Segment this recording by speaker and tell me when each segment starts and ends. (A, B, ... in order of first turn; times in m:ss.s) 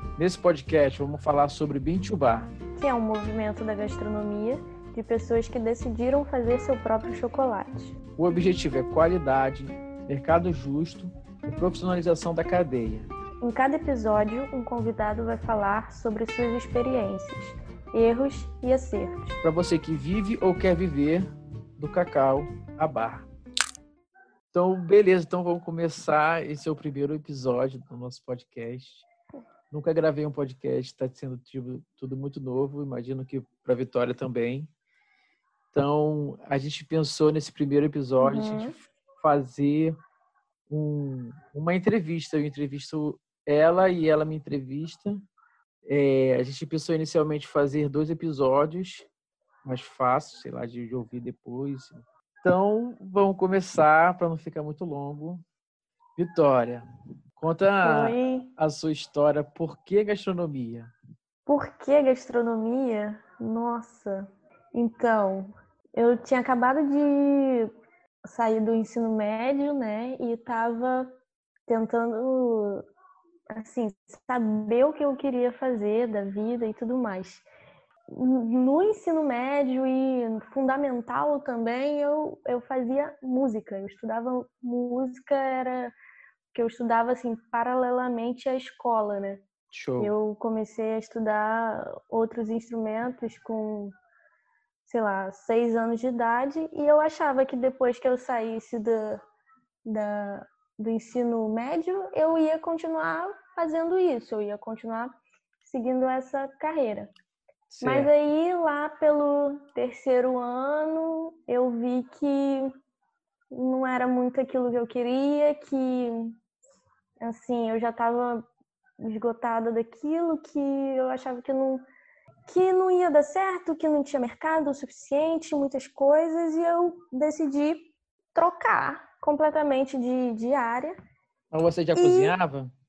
0:00.2-0:02.5 A
0:02.8-0:08.0 B
0:08.2-0:13.1 A
0:13.4-0:19.3 B
0:19.4-0:23.3 A
0:24.5-0:29.0 A
0:29.7-0:34.7 A
0:35.7-0:40.0 A
0:38.2-0:38.7 B
0:40.7-0:45.2 A
0:45.8-0:49.1 A
0:49.6-0:55.4 A
0:56.2-0:56.8 A
0:57.4-1:00.9 A
0:57.8-0:58.5 B
1:01.4-1:07.7 B
1:08.2-1:11.1 B
1:11.7-1:12.8 B
1:13.5-1:17.4 B
1:18.1-1:25.9 B
1:26.5-1:29.4 B
1:29.7-1:30.1 A
1:30.0-1:33.9 B
1:34.8-1:39.2 B
1:39.8-1:47.1 B
1:47.7-1:48.1 A
1:47.8-1:52.7 B
1:53.5-1:56.4 B
1:57.2-1:58.4 B
1:59.0-2:01.8 B
2:02.5-2:10.9 B
2:11.5-2:12.7 A
2:11.9-2:12.4 B